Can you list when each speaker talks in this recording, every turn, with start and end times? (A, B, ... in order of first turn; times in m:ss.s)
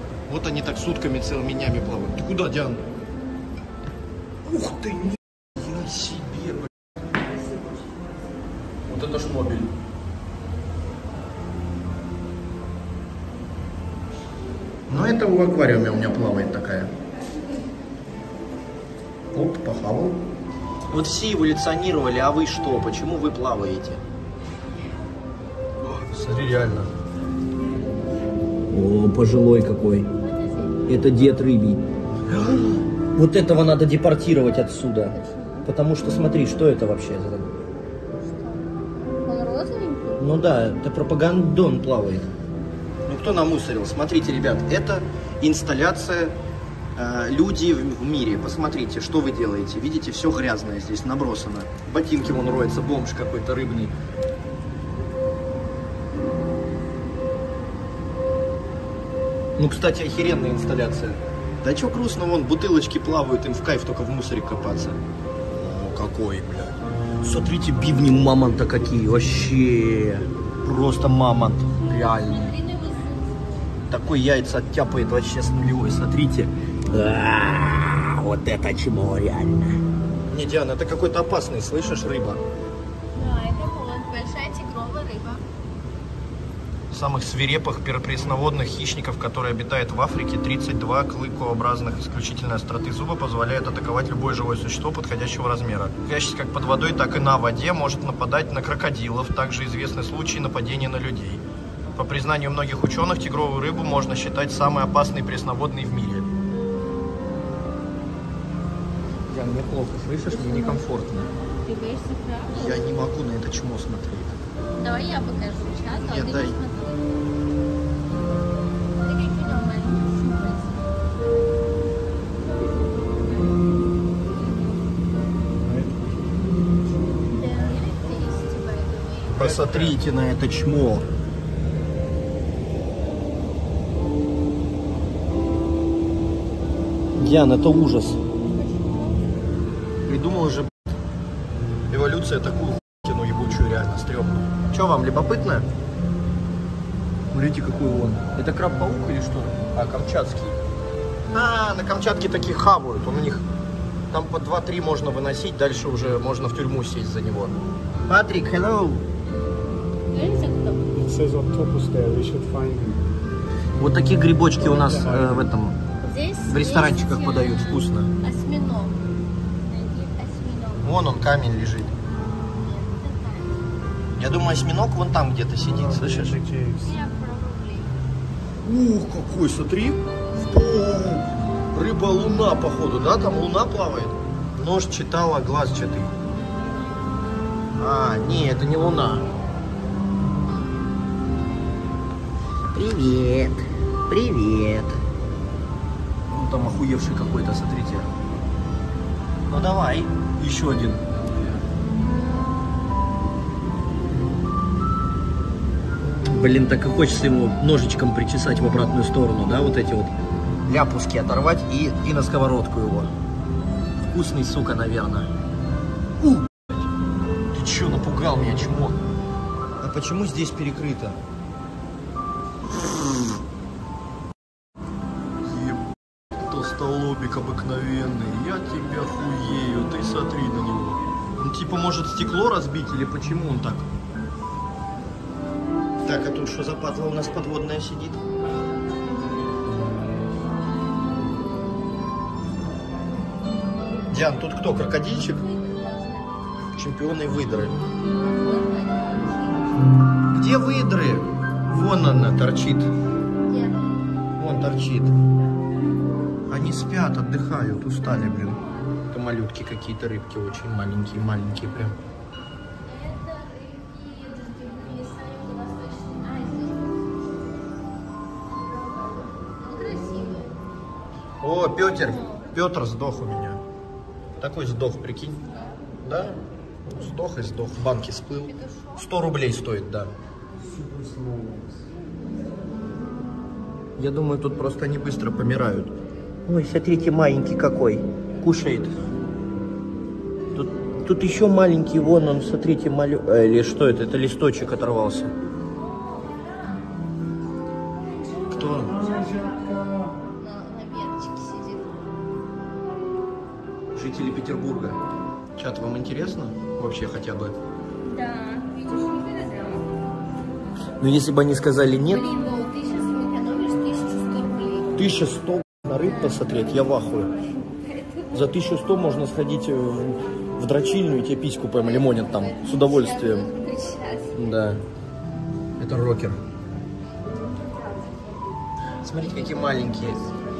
0:00.3-0:02.8 A
0:04.4-0:06.7 A
0:08.8-0:09.7 A
0:14.9-0:16.9 A
0:19.3-0:20.2 A
0:20.9-0:24.0 A
0:25.8-0:26.9 A
0:28.7-0:30.1 A
0:30.2-0:30.8 B
0:30.8-0:37.5 A
0:35.1-0:35.7 B
0:38.3-0:38.6 B
0:39.2-0:40.2 B
0:40.2-0:42.3 A
0:43.1-0:46.4 A
0:47.0-0:53.9 A
0:59.6-1:05.0 A
1:05.5-1:12.6 A
1:12.2-1:13.8 B
1:13.8-1:19.8 A
1:20.3-1:22.4 A
1:23.2-1:25.4 B
1:26.9-1:41.4 A
1:42.0-1:46.3 A
1:49.3-1:51.3 A
1:50.3-1:50.8 B
1:51.6-1:52.8 B
1:52.5-1:54.4 A
1:54.8-1:57.0 B
1:56.0-1:56.6 A
1:59.0-2:00.7 B
2:05.6-2:06.3 C
2:07.3-2:09.4 B
2:09.3-2:11.0 A
2:09.4-2:10.0 C
2:17.2-2:18.2 A
2:18.8-2:19.0 B
2:20.1-2:20.7 A
2:21.9-2:25.7 A
2:27.3-2:30.6 A
2:31.3-2:33.4 A
2:34.1-2:37.6 A
2:38.1-2:39.0 A
2:40.1-2:40.8 B
2:40.9-2:43.0 C
2:43.8-2:45.8 A
2:44.6-2:45.4 C
2:46.0-2:49.0 B
2:46.5-2:48.1 A
2:49.6-2:51.0 B
2:50.8-2:51.9 A
2:52.6-2:53.6 B
2:54.2-2:56.4 A
2:55.7-2:56.9 C
2:56.8-2:58.0 B
2:58.6-3:06.1 A
3:07.8-3:09.2 A
3:12.7-3:15.0 A
3:16.3-3:18.1 A
3:19.5-3:21.0 A
3:26.3-3:30.1 A
3:30.7-3:33.1 A
3:34.1-3:35.3 A
3:36.2-3:36.8 A
3:37.5-3:39.0 A
3:39.8-3:41.2 A
3:42.7-3:43.0 A
3:45.4-3:53.9 A
3:56.0-3:58.2 A
4:04.1-4:05.4 A
4:05.3-4:06.7 B
4:06.7-4:07.8 A
4:08.0-4:09.7 B
4:10.3-4:12.9 A
4:13.4-4:13.8 B
4:14.4-4:15.1 A
4:16.5-4:22.0 A
4:22.8-4:27.0 B
4:29.5-4:30.5 B
4:31.4-4:33.6 A
4:32.0-4:32.4 B
4:34.4-4:35.4 A
4:35.5-4:35.8 B
4:36.0-4:40.1 A
4:38.4-4:39.1 B
4:40.6-4:41.8 C
4:44.0-4:45.9 A
4:46.4-4:48.9 A
4:50.5-4:55.3 A
4:55.8-4:56.9 B
4:58.0-5:02.2 B
4:58.5-4:59.0 A
5:03.9-5:05.0 A
5:05.6-5:07.5 A
5:08.0-5:09.9 B
5:11.0-5:12.3 A
5:12.0-5:15.0 B
5:15.0-5:17.3 A
5:16.0-5:16.4 B
5:17.8-5:18.5 B
5:18.3-5:23.5 A
5:21.8-5:24.5 B
5:24.3-5:24.8 A
5:25.8-5:26.4 A
5:29.0-5:30.2 A
5:29.5-5:30.0 B